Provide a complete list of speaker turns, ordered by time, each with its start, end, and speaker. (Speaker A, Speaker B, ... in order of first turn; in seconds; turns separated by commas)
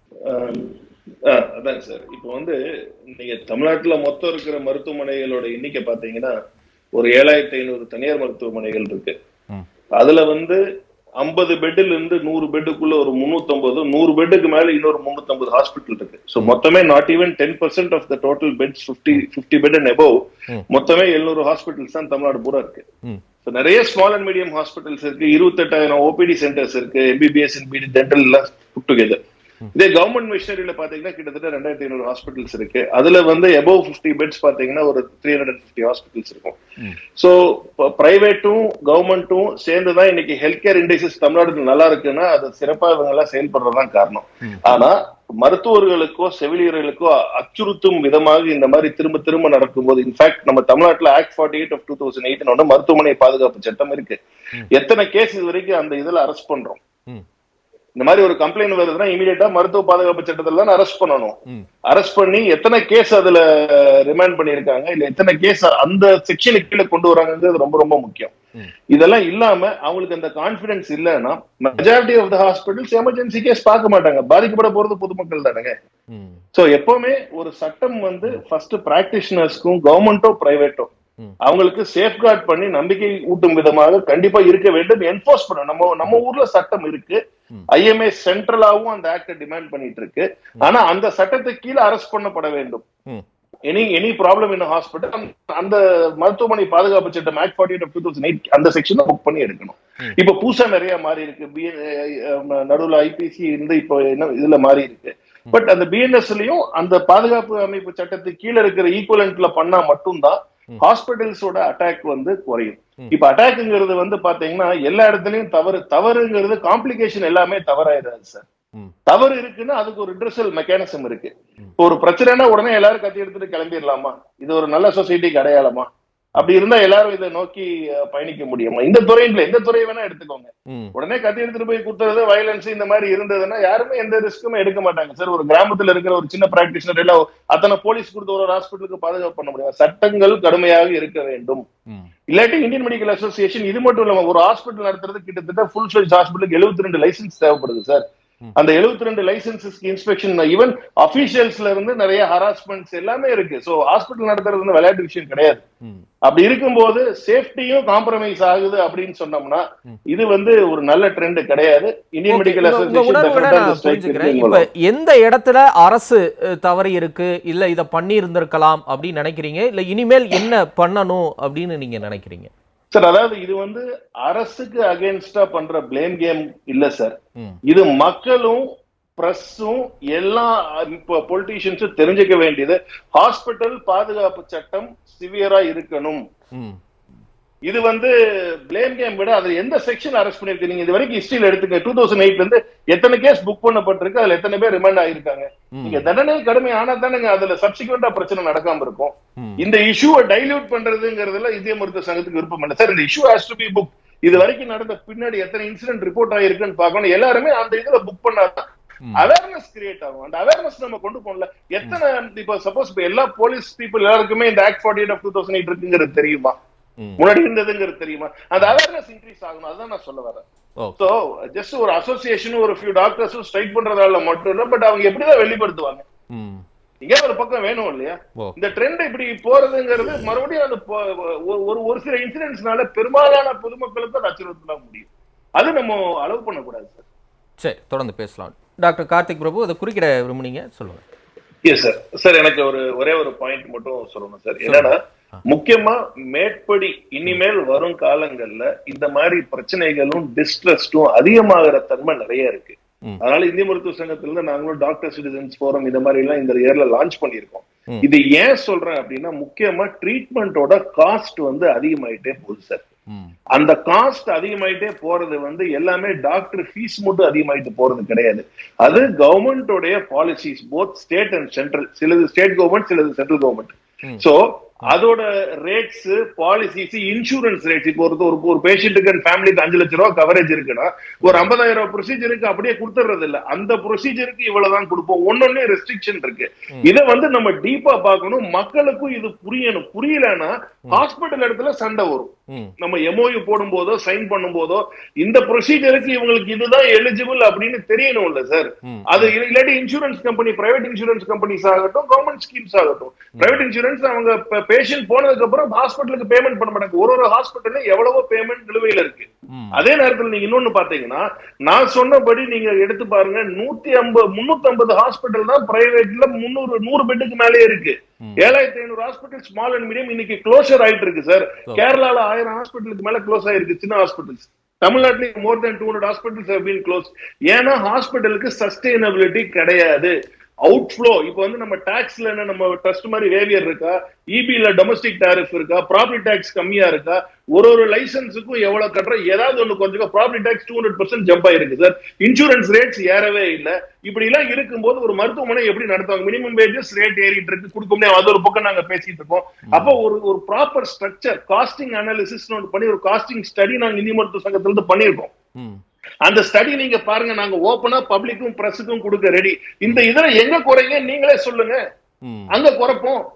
Speaker A: 0.3-0.7, Speaker A: 1.3-2.6, Speaker A: 3.1-6.3, Speaker A: 7.0-9.1, Speaker A: 10.0-10.6, Speaker A: 11.2-20.2, Speaker A: 20.7-22.8, Speaker A: 23.4-29.2, Speaker A: 29.7-36.6, Speaker A: 37.1-54.2, Speaker B: 44.4-44.8, Speaker A: 54.7-56.8, Speaker A: 58.0-61.4, Speaker A: 61.9-68.3, Speaker A: 68.9-75.7, Speaker B: 76.1-76.4, Speaker A: 76.5-80.9, Speaker A: 81.4-87.2, Speaker A: 87.7-92.8, Speaker A: 93.7-118.5, Speaker A: 119.1-141.6, Speaker A: 142.3-148.0, Speaker A: 148.6-155.6, Speaker A: 156.3-164.7, Speaker B: 162.3-172.5, Speaker A: 172.9-177.1, Speaker A: 177.7-178.6, Speaker A: 179.2-186.2, Speaker B: 186.5-186.8, Speaker A: 187.7-188.1, Speaker A: 188.7-208.6, Speaker B: 195.7-196.1, Speaker A: 209.2-216.6, Speaker A: 217.2-220.4, Speaker B: 220.8-221.0, Speaker A: 221.0-226.1, Speaker B: 226.3-226.6, Speaker A: 227.0-237.0, Speaker B: 237.6-241.0, Speaker A: 241.6-262.8, Speaker B: 244.6-244.9, Speaker A: 263.5-330.1, Speaker B: 298.9-299.3, Speaker B: 309.5-309.8, Speaker B: 318.2-318.5, Speaker A: 330.6-355.3, Speaker B: 349.7-349.9, Speaker A: 356.2-361.8, Speaker B: 362.2-362.5, Speaker A: 362.5-363.2